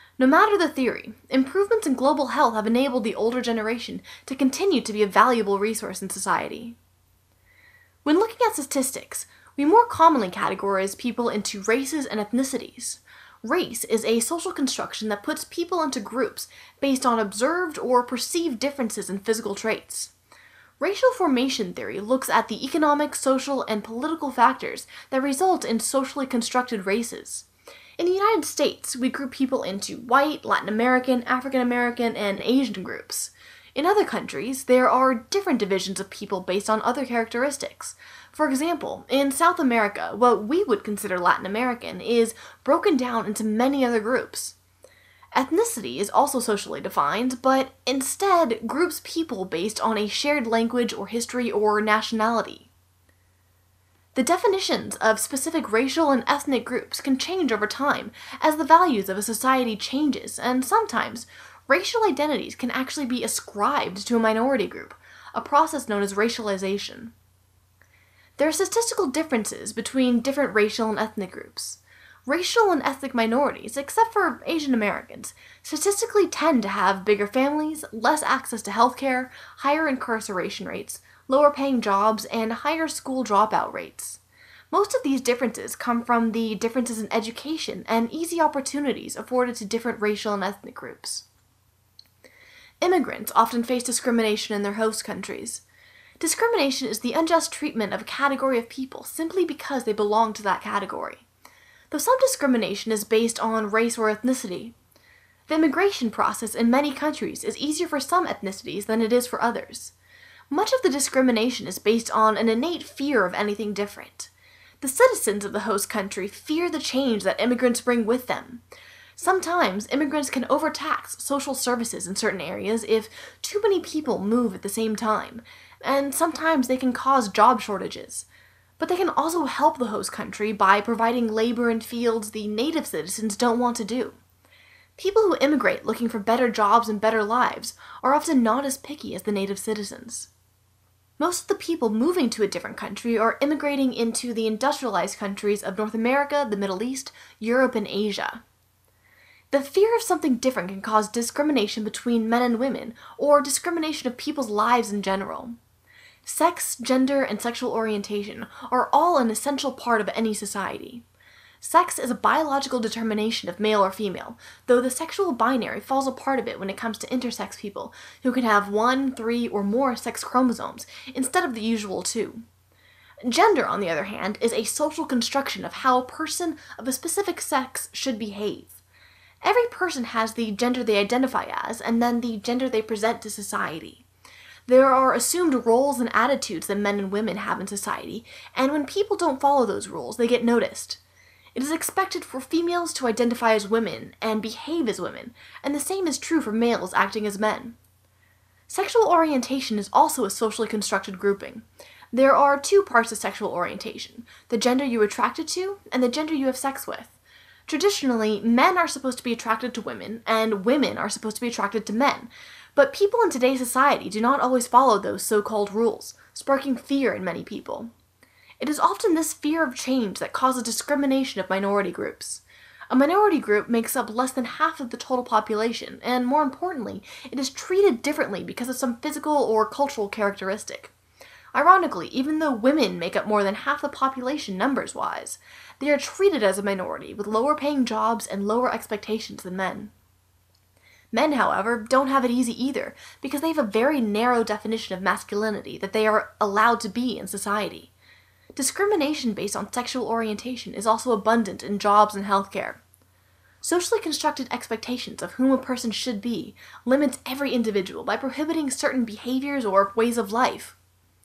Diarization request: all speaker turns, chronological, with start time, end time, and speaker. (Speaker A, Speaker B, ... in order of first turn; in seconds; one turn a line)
Speaker A: 0.2-6.8
Speaker A: 8.0-20.1
Speaker A: 20.8-27.5
Speaker A: 28.0-44.6
Speaker A: 45.3-52.7
Speaker A: 54.1-67.1
Speaker A: 68.4-91.2
Speaker A: 92.8-95.6
Speaker A: 96.2-101.2
Speaker A: 101.9-104.8
Speaker A: 105.5-109.9
Speaker A: 110.5-118.6
Speaker A: 119.2-128.3
Speaker A: 128.8-134.2
Speaker A: 135.0-140.3
Speaker A: 141.2-148.4
Speaker A: 149.5-155.6
Speaker A: 156.2-161.0
Speaker A: 161.6-172.4
Speaker A: 173.2-178.8
Speaker A: 179.4-184.1
Speaker A: 184.7-191.0
Speaker A: 191.6-197.8
Speaker A: 198.7-217.9
Speaker A: 218.6-230.9
Speaker A: 231.5-239.9
Speaker A: 241.1-247.9
Speaker A: 248.6-252.8
Speaker A: 253.6-260.8